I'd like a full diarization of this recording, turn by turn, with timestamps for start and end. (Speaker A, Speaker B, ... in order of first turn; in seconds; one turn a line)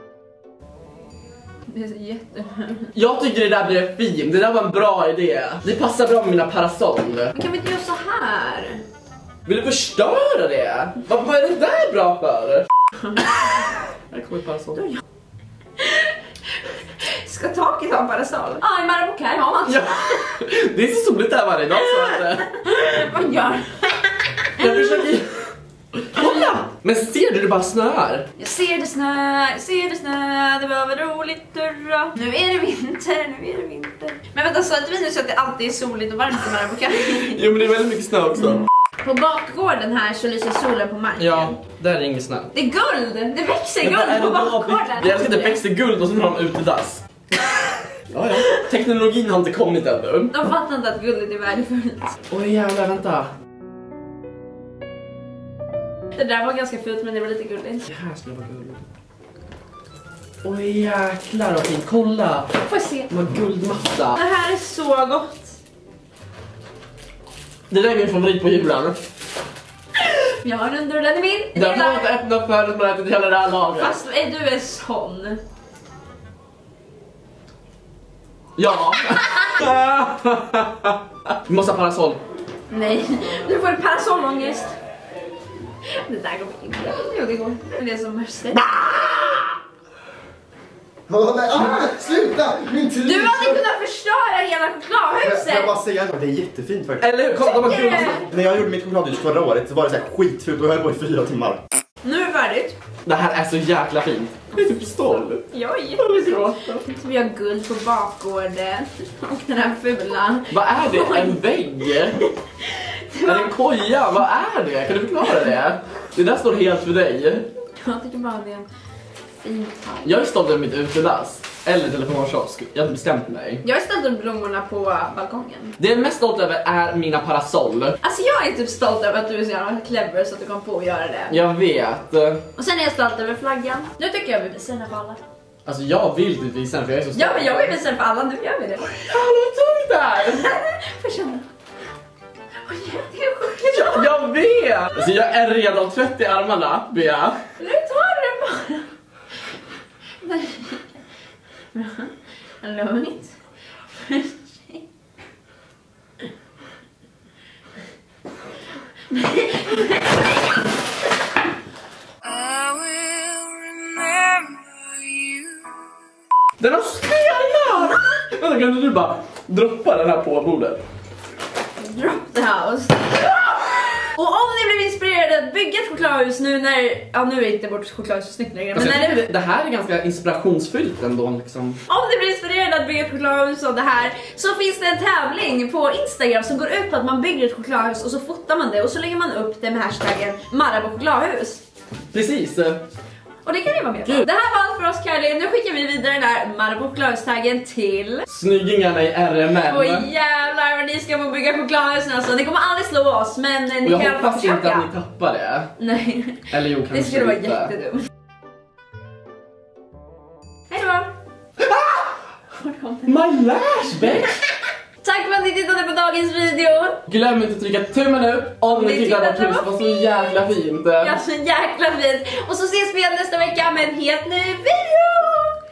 Speaker A: 1.7-2.9
Speaker B: 2.9-7.3
Speaker A: 7.3-8.8
Speaker B: 9.5-12.7
Speaker A: 13.1-13.7
Speaker B: 14.1-14.8
Speaker A: 15.8-20.3
Speaker B: 19.6-22.5
Speaker A: 22.1-25.1
Speaker B: 24.6-25.5
Speaker B: 26.0-28.3
Speaker A: 26.2-26.5
Speaker A: 28.4-37.4
Speaker B: 37.2-38.6
Speaker A: 39.0-41.6
Speaker B: 41.2-42.5
Speaker A: 42.5-45.6
Speaker B: 43.8-47.0
Speaker B: 48.1-50.3
Speaker A: 50.3-52.1
Speaker B: 52.3-53.3
Speaker A: 56.1-57.9
Speaker B: 57.9-58.8
Speaker B: 60.4-62.5
Speaker A: 62.6-63.1
Speaker B: 63.1-64.2
Speaker A: 64.1-65.6
Speaker B: 67.7-69.0
Speaker A: 70.3-72.1
Speaker B: 71.6-74.0
Speaker A: 73.8-75.4
Speaker B: 78.6-82.2
Speaker A: 82.7-84.8
Speaker A: 85.9-88.9
Speaker B: 88.9-89.2
Speaker C: 91.1-93.6
Speaker A: 93.0-95.8
Speaker C: 95.2-97.1
Speaker B: 97.0-98.3
Speaker A: 97.4-98.3
Speaker C: 98.0-101.6
Speaker A: 102.0-102.8
Speaker B: 103.1-105.5
Speaker A: 104.5-113.5
Speaker B: 106.0-106.8
Speaker B: 110.5-112.2
Speaker B: 113.2-117.5
Speaker A: 117.8-118.7
Speaker A: 119.4-120.2
Speaker B: 120.0-123.6
Speaker A: 123.6-125.8
Speaker B: 125.8-128.0
Speaker A: 128.0-131.4
Speaker B: 131.3-132.4
Speaker A: 132.6-135.2
Speaker B: 135.7-137.8
Speaker A: 137.2-138.8
Speaker B: 138.8-140.6
Speaker A: 140.2-141.5
Speaker A: 142.6-144.2
Speaker B: 143.7-147.4
Speaker A: 147.6-148.9
Speaker A: 150.2-150.8
Speaker A: 151.7-153.3
Speaker A: 153.9-154.8
Speaker A: 159.1-160.3
Speaker A: 162.6-163.2
Speaker B: 166.6-170.8
Speaker A: 171.8-179.2
Speaker B: 178.7-181.8
Speaker A: 181.9-191.6
Speaker B: 192.1-192.8
Speaker A: 193.4-198.3
Speaker B: 198.3-200.1
Speaker A: 199.6-204.9
Speaker B: 203.8-205.7
Speaker A: 205.8-208.1
Speaker B: 206.5-207.7
Speaker A: 210.7-211.1
Speaker B: 211.6-212.1
Speaker A: 212.5-213.2
Speaker B: 213.1-214.4
Speaker A: 215.0-217.0
Speaker B: 217.1-221.2
Speaker A: 218.7-220.4
Speaker A: 221.0-225.6